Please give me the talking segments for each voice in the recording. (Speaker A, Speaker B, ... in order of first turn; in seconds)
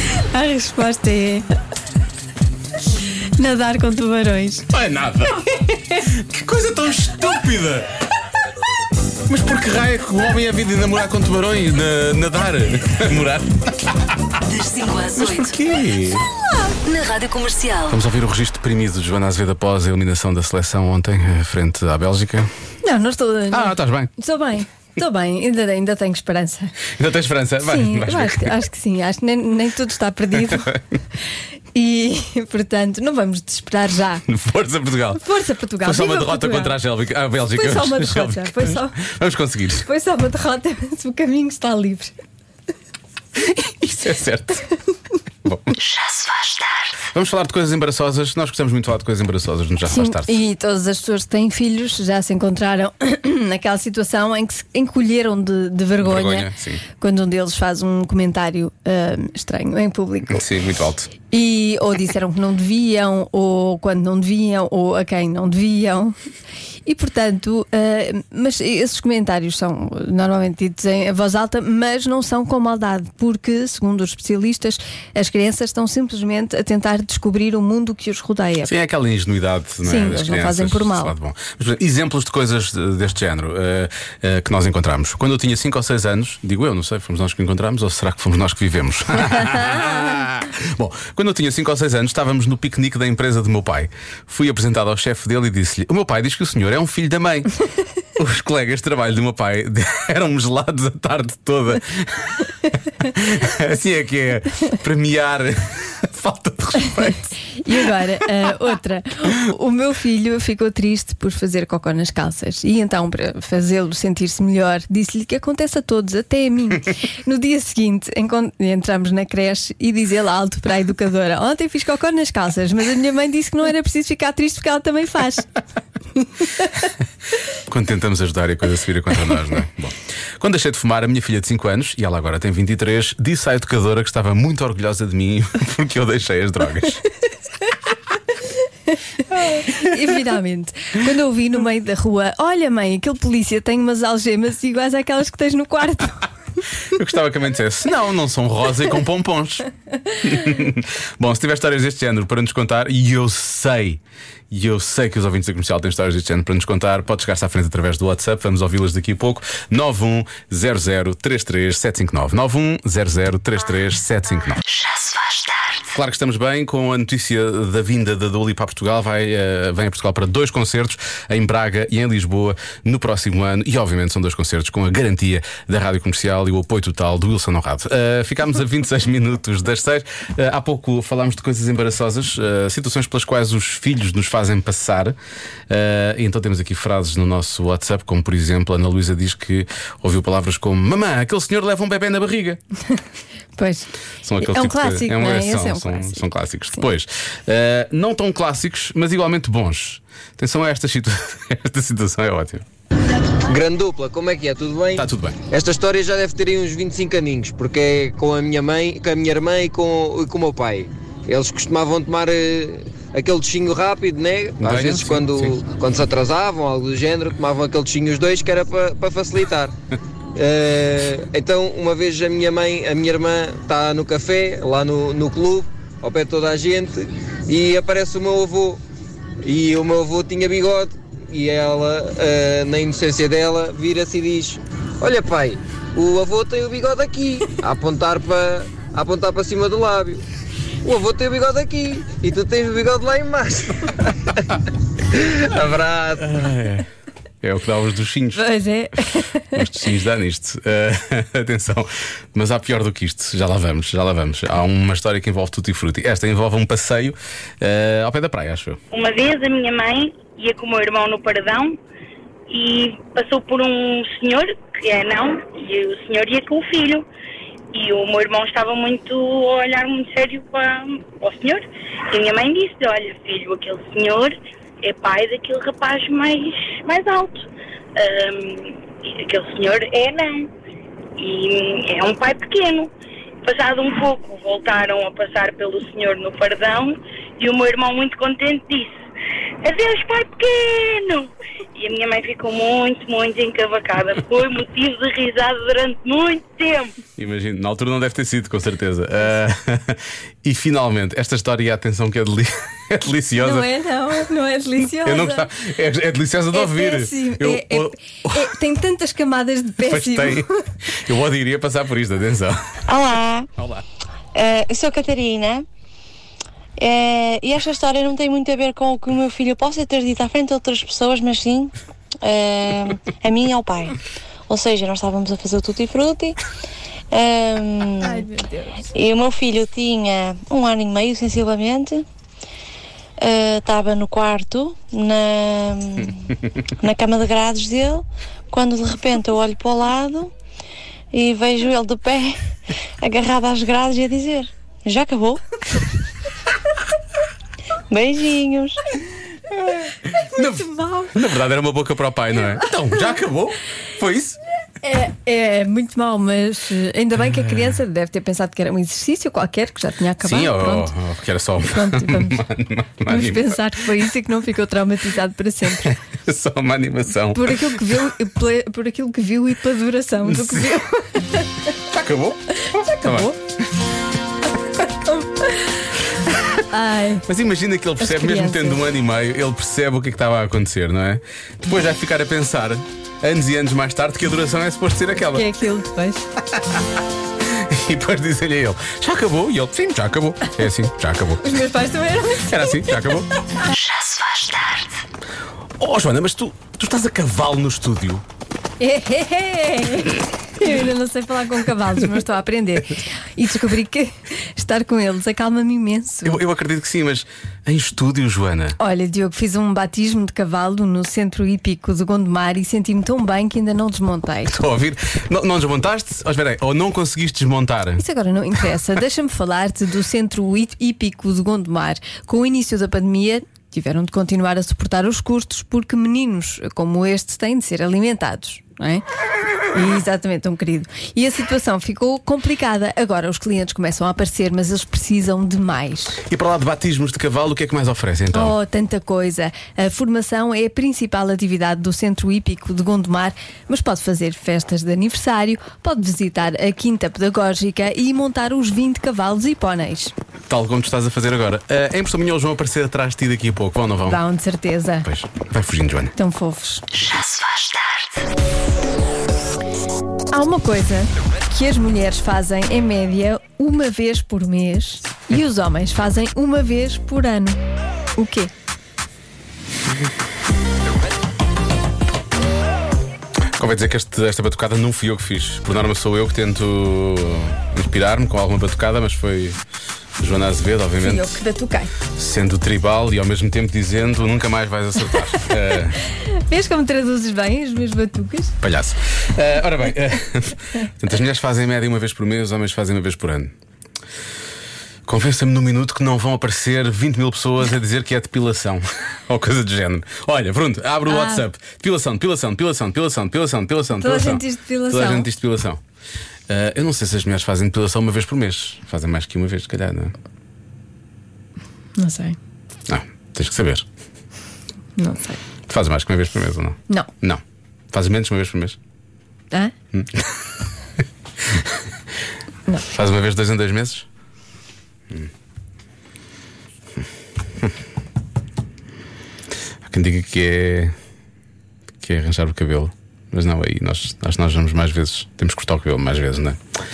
Speaker A: 0.3-1.4, 3.4-4.7, 22.8-26.7, 27.6-30.8, 31.7-34.2, 35.1-36.8, 37.5-39.0, 39.8-42.1, 49.9-60.4, 61.3-66.2, 66.8-78.7, 79.8-81.1, 107.6-125.5, 139.5-146.3, 193.6-193.9, 194.4-196.3, 248.3-249.6, 303.4-305.5, 306.5-310.5, 328.0-328.9, 350.0-351.1, 354.8-360.9, 361.7-362.4, 363.1-365.9, 367.3-371.6, 372.6-373.4, 374.8-375.9, 376.7-377.3, 378.0-378.8, 385.3-386.3, 391.4-392.9, 398.8-406.4, 408.8-414.5, 418.0-429.0, 429.7-436.2, 438.3-450.1, 454.1-455.1, 456.1-456.8, 460.3-467.6, 468.1-468.5, 481.0-481.9, 486.1-488.6, 501.1-501.4, 503.9-505.3, 512.0-512.4, 515.0-515.4
Speaker B: 4.7-7.9, 9.3-14.1, 15.1-16.3, 17.9-22.5, 23.5-24.1, 27.0-28.6, 30.3-30.7, 34.2-35.2, 35.8-39.9, 43.4-44.6, 45.4-45.8, 47.1-50.4, 56.0-56.8, 60.3-61.1, 78.6-97.5, 98.2-107.3, 127.7-137.0, 146.9-149.7, 150.2-154.0, 154.5-164.6, 165.8-185.2, 185.7-192.6, 194.2-202.6, 205.0-205.3, 214.6-215.5, 246.2-246.9, 247.4-248.5, 249.5-258.8, 297.2-303.7, 305.0-308.5, 309.8-312.6, 313.6-313.8, 350.4-354.4, 360.2-364.1, 365.8-368.1, 370.2-370.7, 371.9-373.3, 377.2-385.5, 387.5-391.6, 392.4-393.3, 395.8-398.2, 406.2-408.8, 414.4-418.0, 436.3-438.6, 450.5-454.2, 455.0-456.1, 473.6-479.6, 480.2-481.4, 482.1-486.0, 488.6-493.5, 495.1-505.8, 506.5-510.1, 512.9-513.8, 515.7-517.4, 517.9-518.8, 519.9-520.2, 522.9-524.1, 529.9-530.9, 532.0-536.6
Speaker C: 14.5-15.4, 16.9-17.9
Speaker D: 203.4-219.7, 220.3-228.8, 229.4-240.2, 240.8-244.2, 245.1-246.2
Speaker E: 258.9-261.8, 262.5-267.0, 267.7-277.4, 278.0-280.5, 281.2-282.9, 283.4-288.9, 289.6-296.9
Speaker F: 312.9-313.5, 314.3-315.6, 316.8-326.4, 327.1-328.3, 328.9-332.1, 333.2-340.3, 341.1-342.4, 343.0-345.4, 347.9-348.8